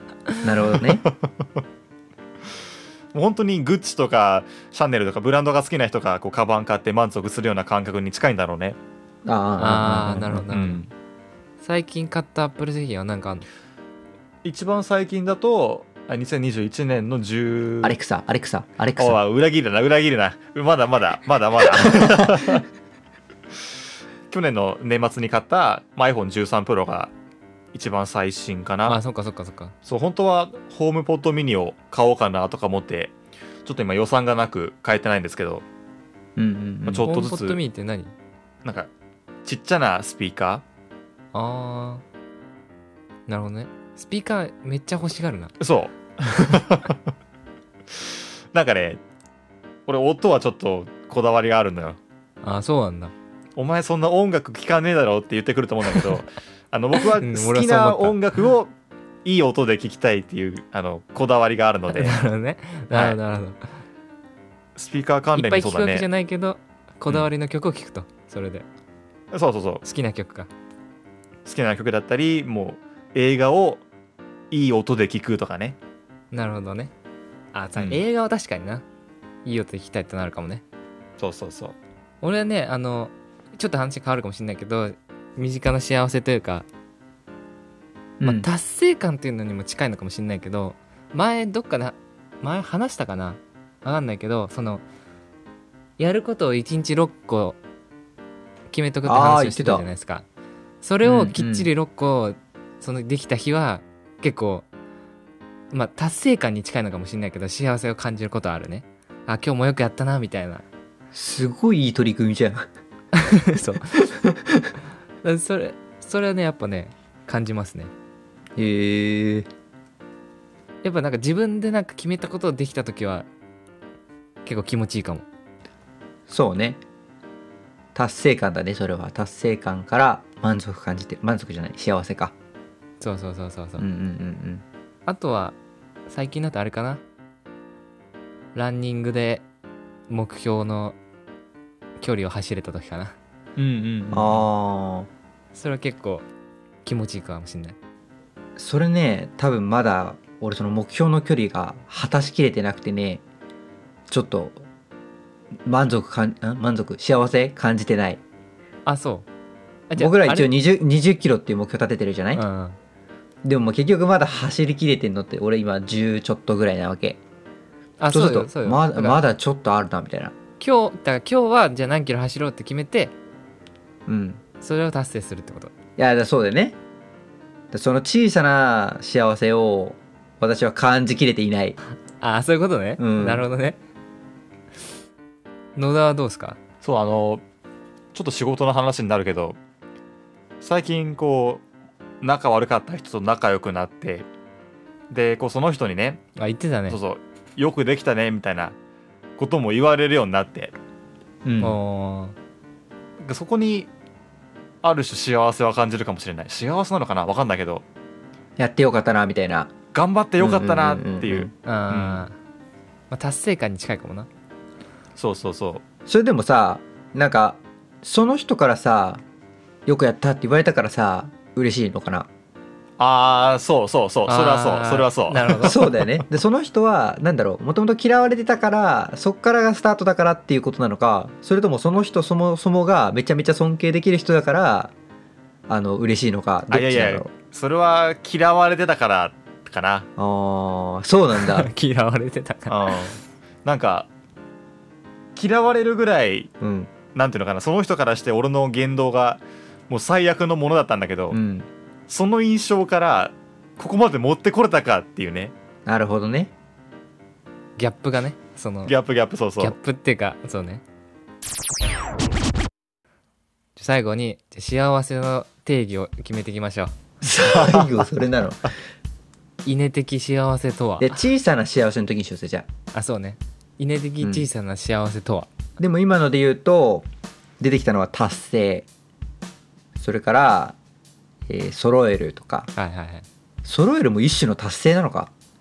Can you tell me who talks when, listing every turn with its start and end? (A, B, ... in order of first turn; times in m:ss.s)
0:00.4-0:01.0 A
0:00.8-0:01.3 B
0:03.1-0:08.8 B
0:09.3-0:10.5 A
0:09.6-0:10.8 C
0:10.5-0:10.9 B
0:11.6-0:13.5 C
0:14.4-0:18.0 B
0:17.8-0:19.2 A
0:19.0-0:22.6 B
0:21.9-0:22.4 A
0:24.3-0:27.1 B
0:27.7-0:29.0 B
0:28.9-0:29.7 C
0:29.8-0:33.1 B
0:33.6-0:35.6 B
0:36.4-0:37.1 A
0:36.9-0:37.6 B
0:37.1-0:38.1 C
0:39.4-0:40.6 B
0:41.3-0:42.0 C
0:43.3-0:45.5 C
0:45.6-0:47.0 B
0:48.5-0:49.0 B
0:49.9-0:52.0 B
0:52.4-0:53.1 C
0:53.6-0:58.7 B
0:57.1-0:58.2 C
0:59.2-1:02.2 B
1:01.9-1:03.6 C
1:02.9-1:03.2 B
1:04.8-1:06.1 B
1:05.4-1:08.7 C
1:09.3-1:09.8 B
1:09.8-1:10.5 C
1:11.4-1:13.8 B
1:14.5-1:15.8 B
1:16.3-1:16.9 C
1:17.5-1:18.8 C
1:17.8-1:18.0 B
1:19.4-1:20.6 C
1:21.2-1:21.8 B
1:22.2-1:26.7 C
1:28.2-1:28.5 A
1:28.2-1:34.8 C
1:36.0-1:37.6 C
1:38.7-1:40.2 C
1:39.0-1:39.8 A
1:40.8-1:44.7 C
1:41.0-1:41.7 A
1:45.7-1:50.6 C
1:51.1-1:52.7 A
1:53.1-1:54.0 C
1:53.9-1:54.7 A
1:55.2-1:57.9 C
1:58.6-1:59.5 A
2:00.8-2:03.3 C
2:04.4-2:05.3 C
2:06.3-2:06.8 A
2:08.0-2:12.3 A
2:13.0-2:13.8 C
2:13.8-2:14.6 A
2:15.1-2:15.6 C
2:16.1-2:17.0 C
2:18.6-2:19.4 C
2:20.1-2:21.0 C
2:22.0-2:23.2 C
2:23.6-2:24.5 B
2:24.1-2:25.1 A
2:25.5-2:26.2 C
2:26.8-2:27.8 C
2:28.6-2:33.2 A
2:34.1-2:34.6 A
2:35.7-2:38.2 A
2:38.9-2:39.3 C
2:39.9-2:40.5 C
2:40.0-2:42.4 A
2:42.4-2:42.8 C
2:43.4-2:47.2 A
2:48.0-2:49.2 C
2:48.1-2:50.3 A
2:50.6-2:53.1 C
2:54.1-2:54.4 A
2:54.6-2:55.7 C
2:56.0-2:56.8 A
2:57.7-3:01.8 A
3:02.2-3:03.8 C
3:03.0-3:03.5 A
3:05.8-3:06.6 C
3:06.8-3:07.4 B
3:08.1-3:09.6 B
3:10.6-3:11.6 B
3:12.2-3:14.3 B
3:15.1-3:16.2 B
3:16.4-3:17.0 C
3:16.9-3:18.8 B
3:19.4-3:20.7 B
3:21.4-3:21.8 A
3:21.6-3:22.4 C
3:23.2-3:23.9 B
3:24.8-3:27.8 B
3:28.6-3:29.7 A
3:29.9-3:32.2 B
3:30.4-3:31.5 A
3:31.6-3:32.4 C
3:33.1-3:34.3 C
3:35.2-3:35.8 B
3:36.1-3:39.2 A
3:39.9-3:42.3 A
3:43.0-3:46.2 B
3:44.3-3:45.8 C
3:45.6-3:54.9 A
3:55.7-3:57.3 A
3:56.7-4:00.1 B
4:00.2-4:01.7 A
4:01.3-4:03.0 C
4:02.7-4:04.1 B
4:05.4-4:06.5 B
4:06.6-4:06.9 A
4:07.1-4:11.4 B
4:11.3-4:11.7 A
4:12.1-4:15.5 B
4:15.9-4:16.5 A
4:17.8-4:18.9 C
4:18.9-4:19.8 B
4:19.6-4:20.8 C
4:23.8-4:27.0 C
4:27.2-4:28.7 A
4:27.3-4:27.9 B
4:29.6-4:31.2 C
4:31.0-4:32.7 A
4:32.9-4:35.5 C
4:34.2-4:34.5 A
4:35.8-4:37.1 A
4:37.6-4:38.9 A
4:40.0-4:40.8 A
4:41.5-4:42.7 A
4:42.8-4:43.2 C
4:43.6-4:45.3 A